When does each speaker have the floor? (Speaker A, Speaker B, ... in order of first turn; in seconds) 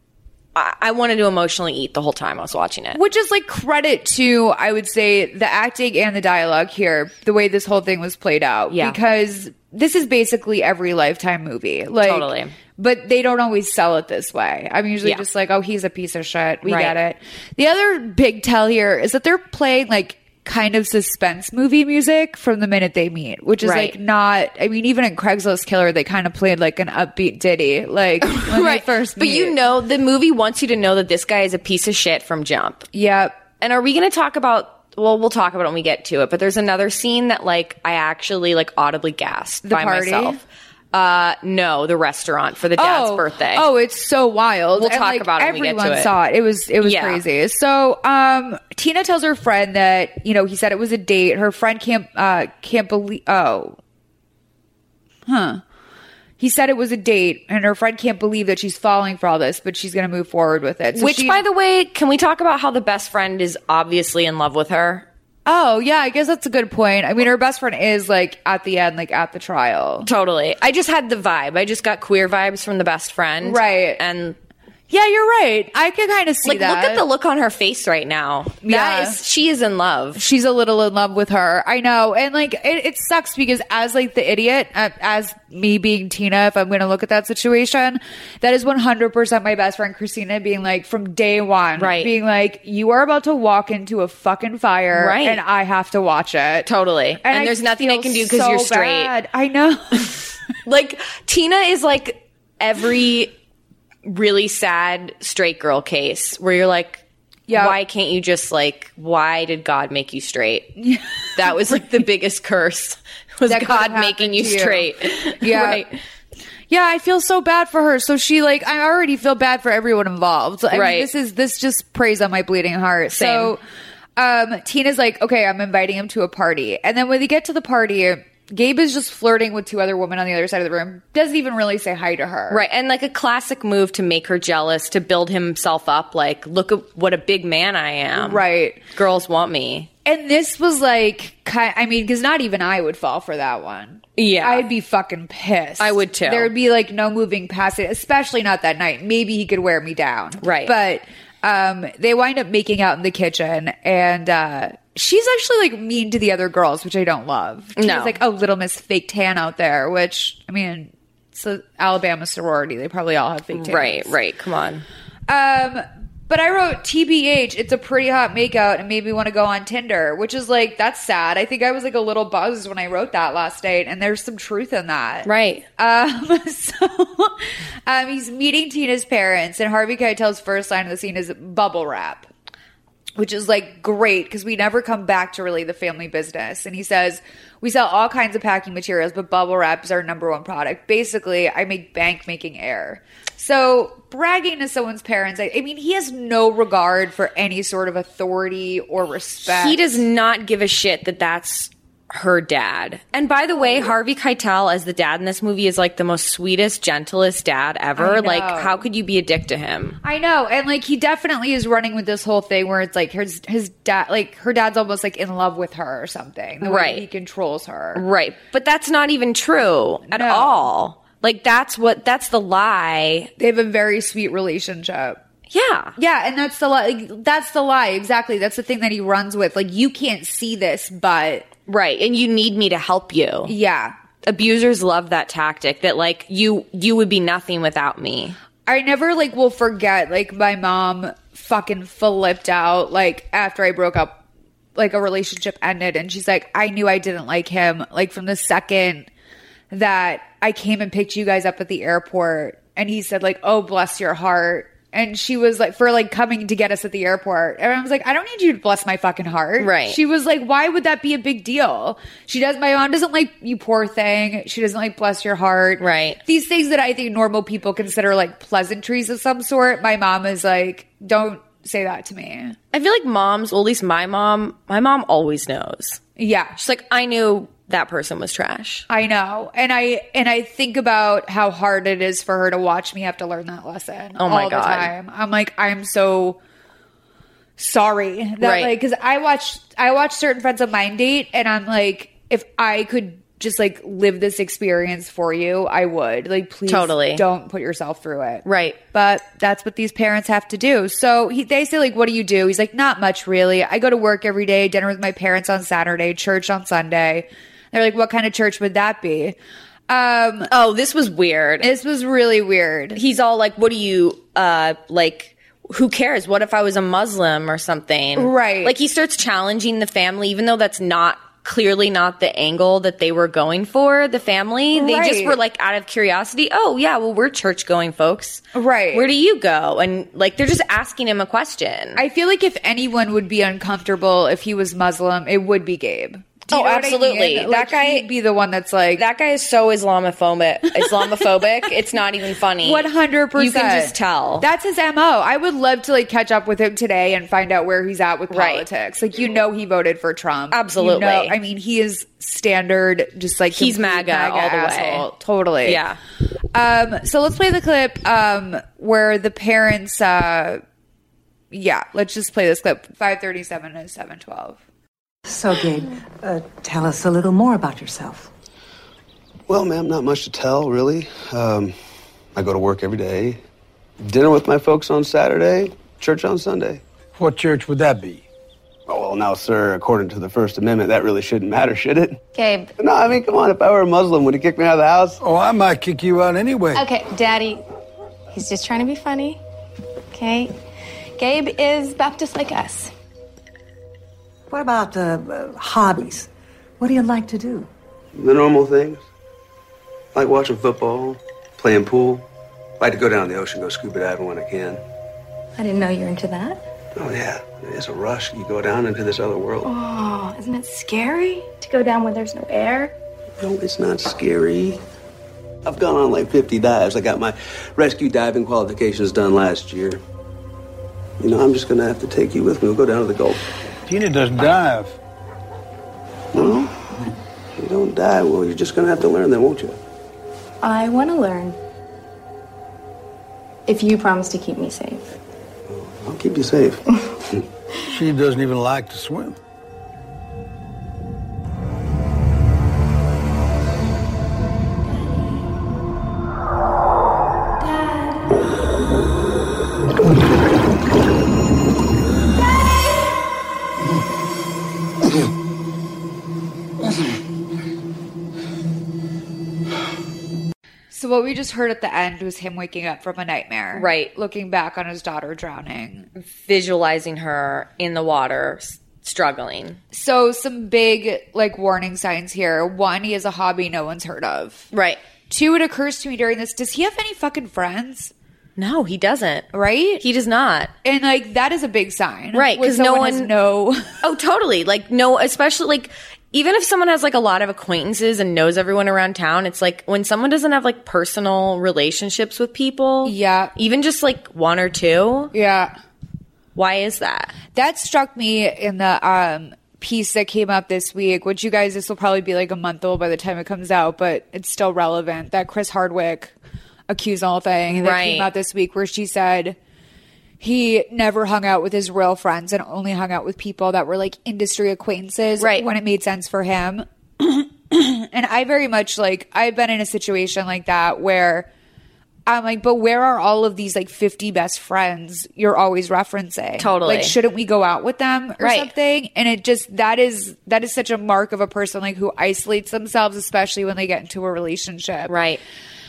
Speaker A: 0.5-3.0, 8.7-9.0, 12.0-12.5, 16.6-16.9, 23.6-23.9, 28.2-32.9, 33.6-43.6, 44.8-46.1, 46.8-47.2, 60.9-65.1, 70.0-74.4, 76.4-80.2, 91.8-92.1, 94.9-95.4, 96.7-99.1, 100.6-103.3, 104.0-110.8, 111.3-115.9, 120.7-121.1, 123.1-123.5, 132.5-138.4, 138.9-139.9, 144.2-144.6, 145.8-146.5, 150.4-150.7, 157.8-158.2, 163.5-164.8, 175.2-175.6, 199.4-210.0, 216.6-217.0, 217.9-223.3, 225.5-225.9, 231.7-233.5, 234.2-238.3, 259.6-260.0, 265.8-266.2, 272.7-276.0, 276.6-278.8, 284.2-284.9, 288.4-288.7, 296.7-297.2, 298.4-298.8, 310.5-311.7, 312.9-332.0, 336.5-338.1, 338.9-344.4, 348.3-348.6, 350.5-351.3, 353.5-355.0, 355.6-356.0, 463.8-464.1, 466.2-469.8, 474.7-475.0, 478.6-479.5, 480.0-480.7, 482.3-483.3, 484.0-495.3, 496.6-497.3, 507.8-508.3, 515.4-515.6, 526.6-527.1, 528.4-528.7, 535.1-535.4
Speaker B: 2.9-29.6, 32.9-33.4, 39.6-40.4, 42.8-53.8, 55.3-55.6, 56.4-61.4, 65.5-70.1, 73.4-74.0, 74.9-77.0, 78.6-79.2, 80.1-96.7, 97.2-100.2, 107.5-107.8, 110.8-111.8, 113.5-115.8, 116.7-123.6, 124.2-132.6, 138.1-138.8, 140.0-164.1, 165.3-182.3, 183.2-200.0, 203.5-203.9, 208.0-208.8, 210.0-218.0, 220.1-220.7, 223.4-225.2, 226.0-231.5, 233.5-233.9, 238.7-244.2, 244.8-249.1, 249.7-272.6, 276.2-276.5, 278.9-286.4, 287.6-309.4, 309.9-310.5, 311.6-313.0, 318.1-318.8, 324.7-325.4, 328.5-329.1, 331.9-339.0, 340.7-341.2, 342.6-355.8, 356.5-360.6, 361.5-364.6, 460.9-466.1, 469.9-474.7, 475.3-478.1, 479.5-480.0, 480.8-483.8, 493.0-493.5, 495.3-495.7, 497.5-506.3, 506.9-509.6, 510.4-521.5, 522.2-535.1
Speaker C: 365.2-368.3, 394.5-397.7
Speaker D: 369.5-371.7, 372.3-373.4, 374.0-376.8, 378.9-382.2, 382.8-385.2, 398.1-399.0, 400.1-402.2, 402.8-404.8, 406.9-409.7, 413.4-414.8, 415.6-420.0, 421.2-423.4, 426.3-426.7, 427.6-429.8, 435.7-436.8
Speaker E: 377.1-378.2, 385.2-386.8, 423.9-425.0, 437.9-439.4
Speaker F: 382.3-382.7, 386.7-387.6, 388.3-389.4, 390.1-390.5, 391.2-392.9, 405.6-406.6, 409.6-412.9, 430.6-431.6, 433.7-435.0